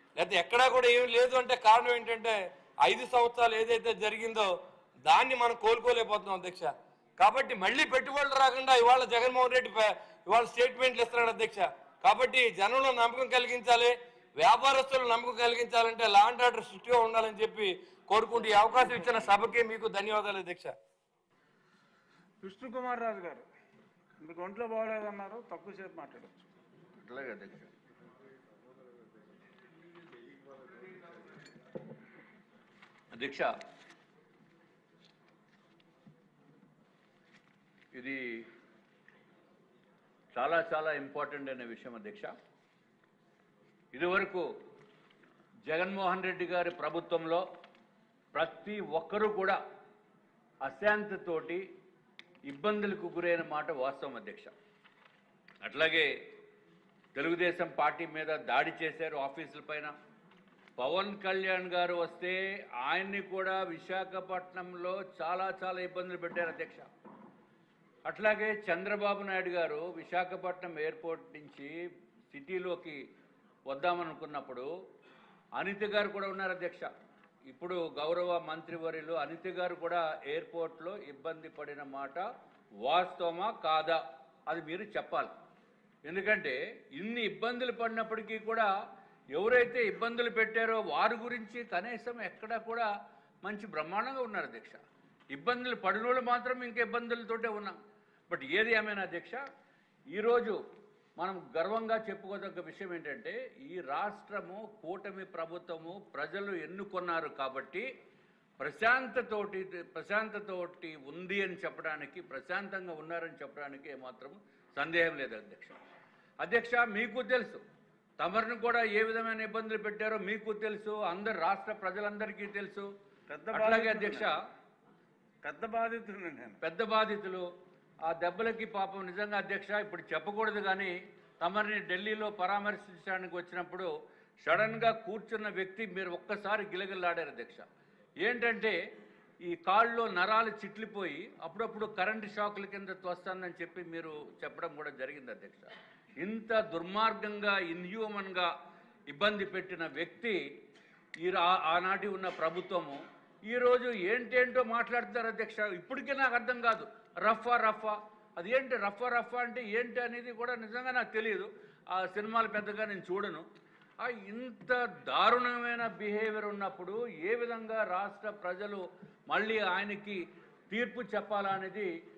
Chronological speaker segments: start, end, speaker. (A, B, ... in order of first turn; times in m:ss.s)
0:00.2-0:04.5 A
0:05.0-0:20.8 A
0:22.4-0:23.5 B
0:24.2-0:26.5 B
0:27.0-0:27.7 C
0:33.1-0:33.5 C
0:37.9-0:38.2 C
0:40.3-0:42.3 C
0:43.9-0:44.5 C
0:45.7-0:47.4 C
0:48.3-0:49.6 C
0:50.6-0:51.6 C
0:52.5-0:54.5 C
0:55.6-0:56.1 C
0:57.2-0:59.9 C
1:00.8-1:06.9 C
1:08.1-1:11.7 C
1:12.3-1:13.0 C
1:13.7-1:14.7 C
1:15.6-1:16.9 C
1:17.5-1:22.2 C
1:22.8-1:25.3 C
1:26.0-1:28.7 C
1:29.4-1:32.9 C
1:33.4-1:34.8 C
1:35.3-1:37.8 C
1:38.3-1:39.4 C
1:40.1-1:40.6 C
1:41.2-1:47.9 C
1:48.6-1:55.8 C
1:56.4-1:57.6 C
1:58.2-2:02.9 C
2:03.3-2:04.3 B
2:03.5-2:04.4 C
2:05.4-2:06.6 B
2:06.6-2:07.5 C
2:08.1-2:13.9 C
2:14.4-2:17.6 C
2:18.2-2:18.8 C
2:19.5-2:25.7 C
2:26.2-2:28.5 C
2:29.1-2:30.4 C
2:31.2-2:43.4 C
2:44.0-2:51.9 C